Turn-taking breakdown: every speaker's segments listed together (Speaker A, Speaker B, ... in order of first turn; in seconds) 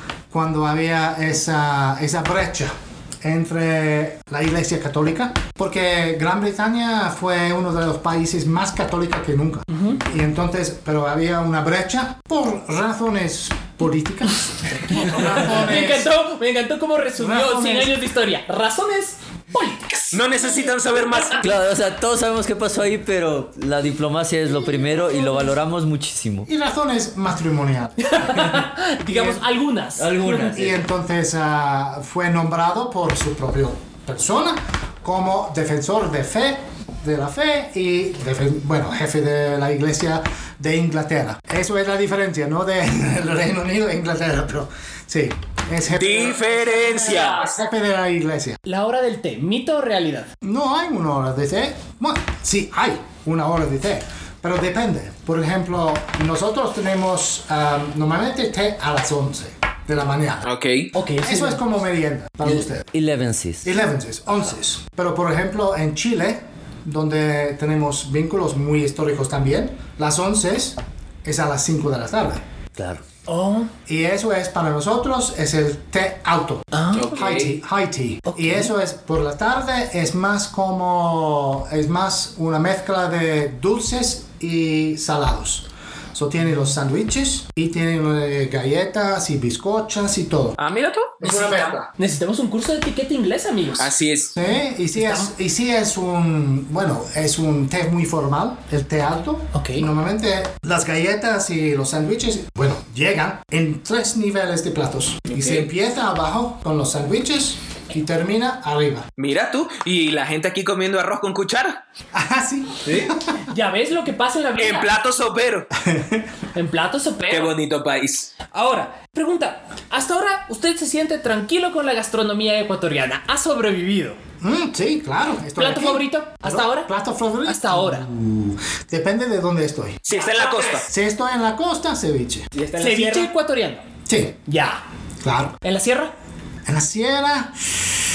Speaker A: 0.3-16.1, 17.2-17.9, 26.5-29.4, 30.5-48.6, 50.4-60.5, 61.2-62.9, 63.6-72.4, 73.9-90.6, 91.2-91.9, 94.3-109.1, 112.1-113.4, 115.8-116.3, 124.4-130.1, 130.8-132.5, 134.1-134.4, 135.2-135.6, 136.7-137.8
Speaker B: 9.7-10.0, 14.8-20.2, 28.0-30.5, 48.6-50.3, 60.9-61.6, 73.3-73.7, 76.7-77.2, 78.2-78.7, 92.0-93.9, 95.0-95.3, 99.5-99.9, 113.4-114.9, 116.5-117.5, 118.5-124.2, 125.6-126.9, 127.4-128.1, 132.8-133.8, 134.4-134.8, 135.6-136.1
Speaker C: 20.1-21.5, 45.9-47.6, 60.4-60.9, 76.9-77.6, 90.6-91.8, 93.8-94.3, 105.3-105.7, 109.2-111.8, 112.8-113.2, 114.6-115.7, 117.3-118.3, 130.0-130.9, 132.5-133.3
Speaker D: 21.4-26.5, 30.0-30.8, 62.5-63.7, 72.8-73.0